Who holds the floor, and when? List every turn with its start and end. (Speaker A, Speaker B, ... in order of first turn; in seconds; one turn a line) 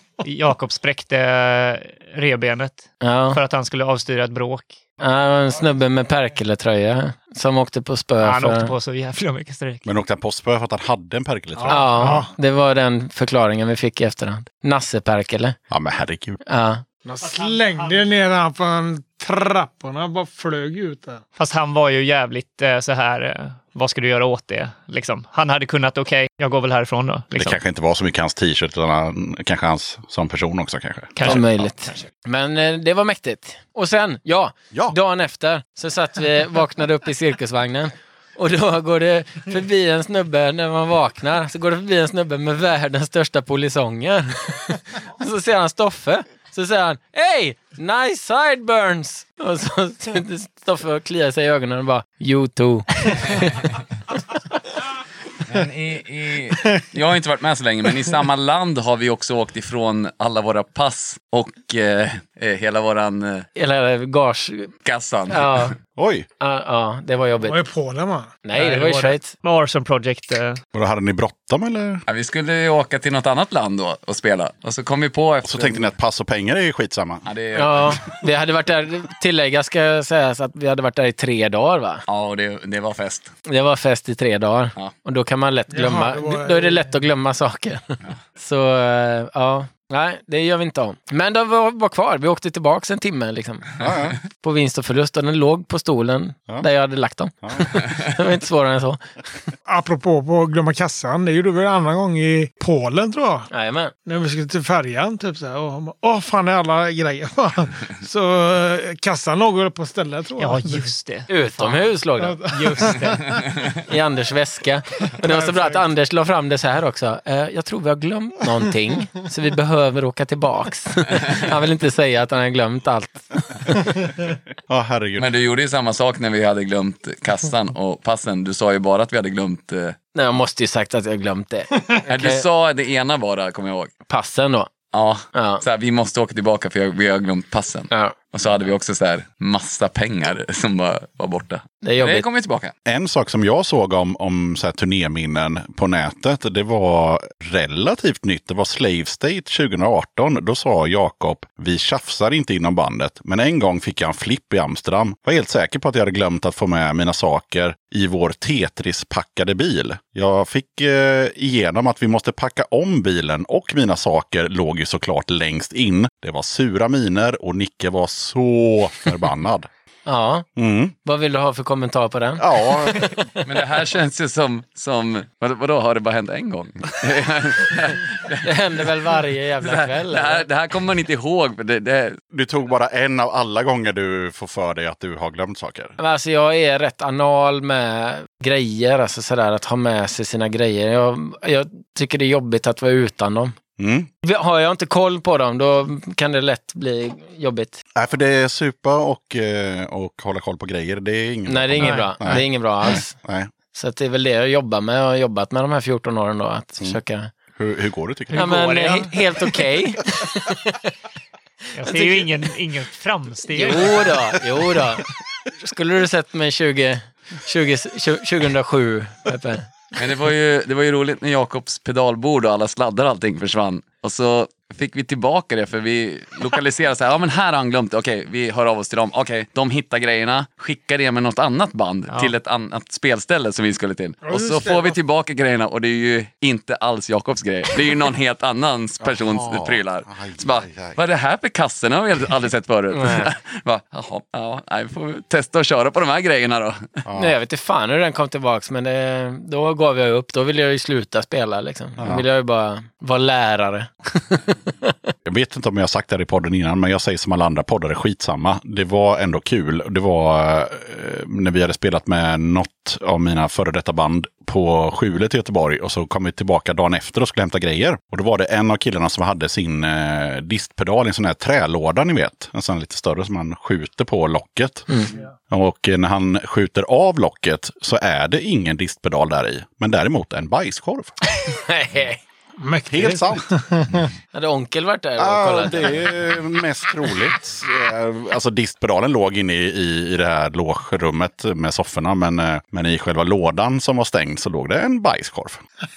Speaker A: 0.2-4.8
Speaker B: 3.0-3.4
Speaker B: 5.0-8.7
Speaker A: 8.2-9.8
Speaker C: 9.8-12.0
Speaker D: 11.6-12.3
Speaker B: 11.7-15.6
Speaker C: 15.7-16.4
Speaker B: 16.5-16.8
Speaker D: 17.1-21.2
Speaker A: 21.4-27.6
Speaker C: 27.4-31.7
Speaker A: 31.2-32.0
Speaker B: 31.2-53.4
Speaker E: 55.5-63.5
Speaker B: 63.5-64.7
Speaker E: 64.8-65.7
Speaker B: 65.3-65.7
Speaker C: 66.0-66.3
Speaker B: 66.4-67.6
Speaker D: 67.4-68.4
Speaker B: 68.5-69.3
Speaker A: 68.5-70.6
Speaker C: 70.7-72.0
Speaker E: 72.1-75.9
Speaker C: 75.5-77.2
Speaker E: 77.2-78.1
Speaker B: 77.5-82.0
Speaker E: 82.1-83.3
Speaker B: 83.5-93.7
Speaker D: 85.7-86.9
Speaker C: 93.8-94.2
Speaker B: 94.4-99.0
Speaker C: 97.4-97.8
Speaker D: 99.7-103.5
Speaker B: 103.5-103.9
Speaker D: 104.0-110.8
Speaker A: 110.4-111.9
Speaker B: 111.3-112.9
Speaker D: 112.2-113.1
Speaker A: 112.6-113.2
Speaker B: 113.9-123.3
Speaker D: 115.2-115.8
Speaker C: 124.7-125.3
Speaker E: 125.2-130.0
Speaker B: 130.2-132.4
Speaker E: 132.1-133.9
Speaker B: 134.1-134.7
Speaker E: 134.9-142.7
Speaker B: 135.3-135.6
Speaker B: 141.8-142.3
Speaker C: 142.9-169.7
Speaker B: 170.1-170.4
Speaker C: 170.6-170.9
Speaker B: 171.0-173.4
Speaker C: 172.4-173.1
Speaker E: 173.4-178.5
Speaker B: 178.4-180.5
Speaker E: 179.6-182.2
Speaker C: 182.3-186.0
Speaker B: 186.0-193.6
Speaker C: 193.8-194.1
Speaker B: 194.2-197.8
Speaker C: 198.0-203.5
Speaker B: 201.5-203.1
Speaker A: 201.8-202.4
Speaker B: 203.7-207.3
Speaker C: 207.6-208.6
Speaker A: 208.3-209.2
Speaker B: 208.3-210.9
Speaker A: 211.8-214.2
Speaker B: 211.8-212.5
Speaker B: 213.5-219.7
Speaker E: 220.0-246.9
Speaker D: 234.2-235.0
Speaker C: 239.0-241.0
Speaker B: 242.9-243.3
Speaker C: 247.1-247.3
Speaker B: 247.2-254.9
Speaker C: 252.0-252.2
Speaker C: 255.2-281.2
Speaker B: 281.4-282.2
Speaker D: 282.6-284.1
Speaker C: 282.9-283.5
Speaker B: 284.3-286.1
Speaker C: 285.2-295.6